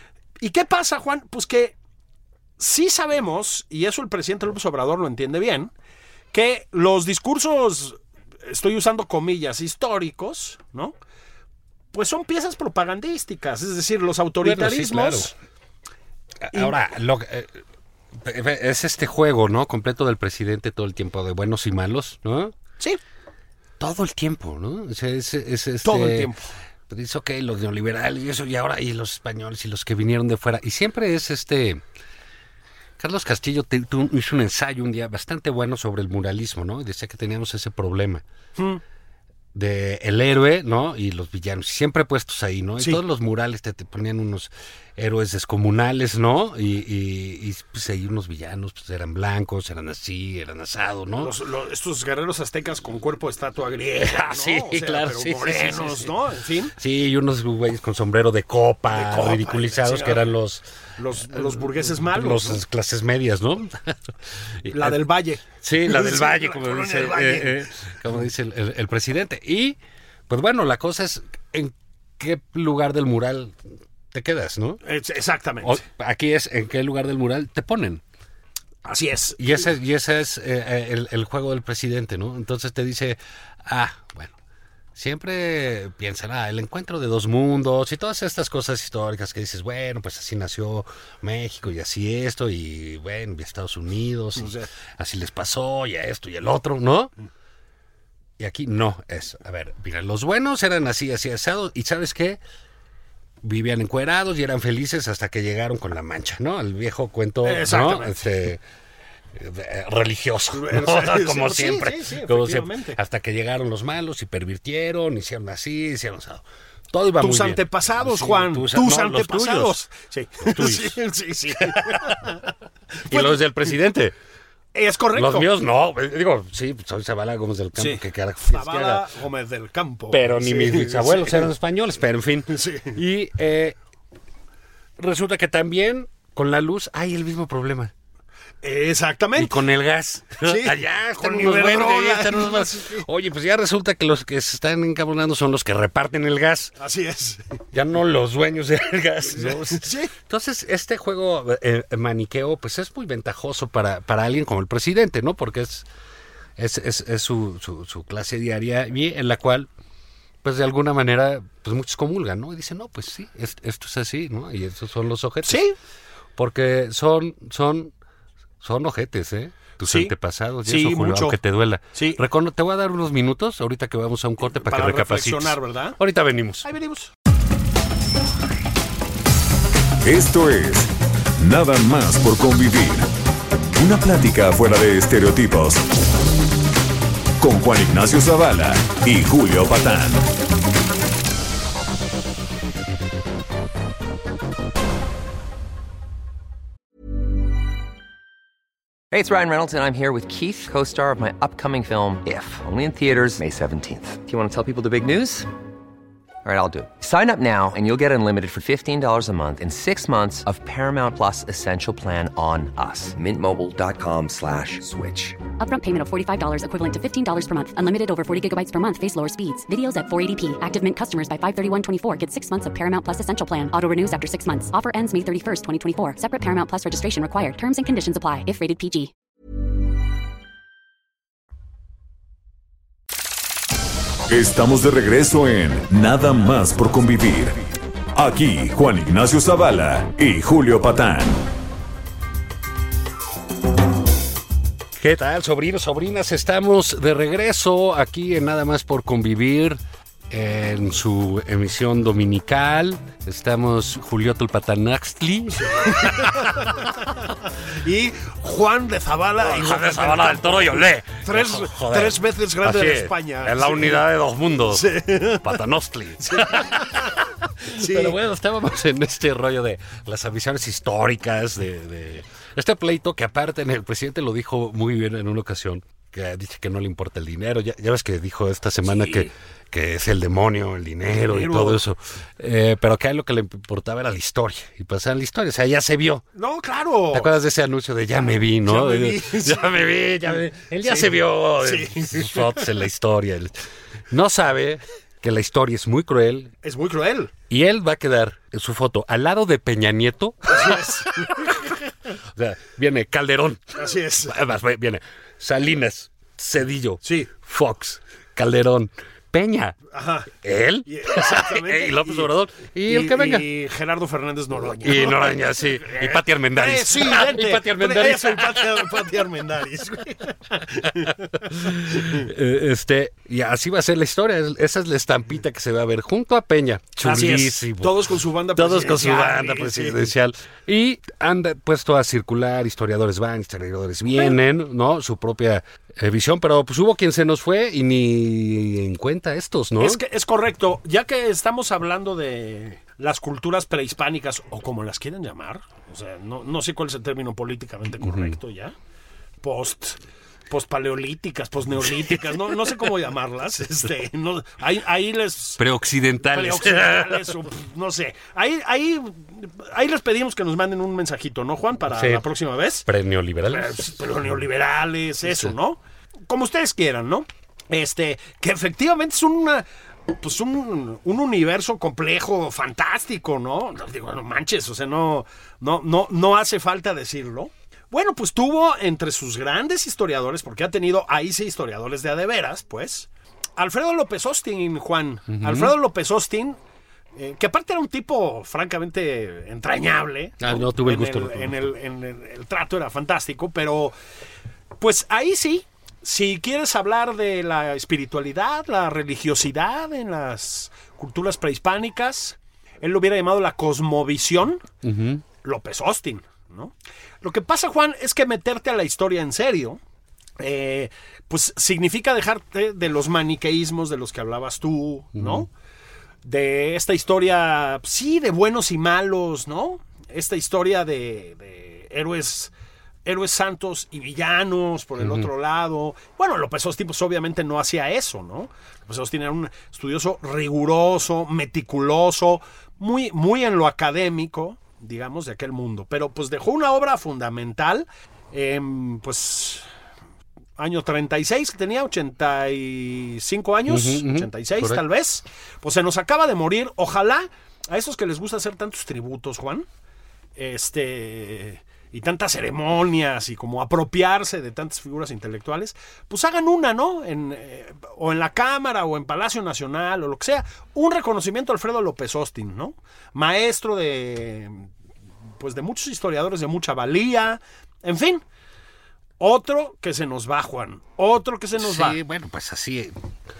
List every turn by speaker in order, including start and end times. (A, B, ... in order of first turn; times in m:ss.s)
0:00.4-0:01.7 A
0:02.6-0:05.7 A
0:06.3-0:10.9 A
0:11.9-0:15.3 A
0:14.4-0:15.3 B
0:16.4-0:17.6 B
0:18.1-0:22.5 B
0:23.8-0:26.3 B
0:25.8-0:26.5 A
0:26.9-0:31.8 B
0:33.0-0:38.2 B
0:38.6-0:38.8 A
0:39.5-0:51.3 B
0:51.2-0:56.7 A
0:54.0-0:56.1 B
0:56.8-1:00.6 B
0:58.9-1:00.3 A
1:01.0-1:02.6 A
1:01.2-1:05.0 B
1:04.7-1:07.7 A
1:05.6-1:09.8 B
1:10.3-1:13.6 B
1:14.1-1:14.8 B
1:14.8-1:15.8 A
1:15.6-1:18.0 B
1:18.8-1:19.6 A
1:19.4-1:24.3 B
1:24.9-1:37.1 B
1:34.4-1:34.6 A
1:38.4-1:42.4 B
1:43.4-1:48.6 B
1:47.4-1:48.3 A
1:49.3-1:59.8 B
1:50.5-1:53.0 A
1:57.2-2:02.5 A
2:00.4-2:01.0 B
2:01.5-2:02.4 B
2:03.0-2:03.9 A
2:03.1-2:04.1 B
2:04.7-2:05.5 A
2:05.1-2:09.0 B
2:07.8-2:11.5 A
2:10.1-2:13.8 B
2:12.5-2:13.0 A
2:15.0-2:17.9 B
2:18.6-2:19.6 A
2:19.4-2:26.7 B
2:20.4-2:23.0 A
2:26.8-2:27.5 A
2:27.7-2:35.9 B
2:29.3-2:30.1 A
2:36.6-2:39.7 B
2:40.4-2:45.6 B
2:45.4-2:45.8 A
2:46.4-2:47.9 B
2:48.6-2:56.7 B
2:49.8-2:51.4 A
2:51.9-2:52.2 A
2:54.5-2:56.0 A
2:56.6-2:57.1 A
3:00.0-3:03.1 C
3:03.7-3:05.9 C
3:07.4-3:10.3 C
3:19.1-3:25.5 D
3:26.4-3:35.4 D
3:35.6-3:49.1 E
3:54.3-4:01.4 C
4:05.0-4:09.8 B
4:10.3-4:16.6 B
4:15.6-4:24.1 A
4:19.4-4:46.2 B
4:24.7-4:25.6 A
4:26.2-4:28.2 A
4:38.8-4:39.3 A
4:41.2-4:41.8 A
4:46.3-4:47.3 A
4:47.1-4:53.6 B
4:48.6-4:49.9 A
4:50.8-4:52.7 A
4:54.1-4:56.5 B
4:56.6-4:57.3 A
4:57.5-5:01.7 B
5:00.5-5:01.7 A
5:02.3-5:09.8 B
5:03.8-5:04.4 A
5:07.0-5:07.3 A
5:09.9-5:10.3 A
5:10.3-5:13.5 B
5:10.8-5:12.3 A
5:12.8-5:22.3 A
5:14.6-5:18.8 B
5:21.4-5:28.0 B
5:27.0-5:30.1 A
5:28.6-5:40.0 B
5:39.8-5:48.7 A
5:48.0-5:48.4 B
5:49.4-5:55.6 A
5:55.6-5:57.3 B
5:56.2-6:02.8 A
6:01.9-6:02.2 B
6:02.8-6:03.8 B
6:03.5-6:26.6 A
6:05.2-6:05.5 B
6:25.3-6:25.7 B
6:27.2-6:33.9 A
6:30.4-6:31.7 B
6:34.8-6:44.6 A
6:44.8-6:45.2 B
6:45.4-6:49.8 A
6:50.4-6:55.5 A
6:55.2-6:55.4 B
6:56.2-7:02.5 A
7:03.0-7:19.6 A
7:05.0-7:05.3 B
7:20.6-7:29.7 A
7:23.7-7:24.8 B
7:30.4-7:44.7 A
7:45.4-7:48.2 A
7:49.2-7:52.0 A
7:51.6-7:52.9 B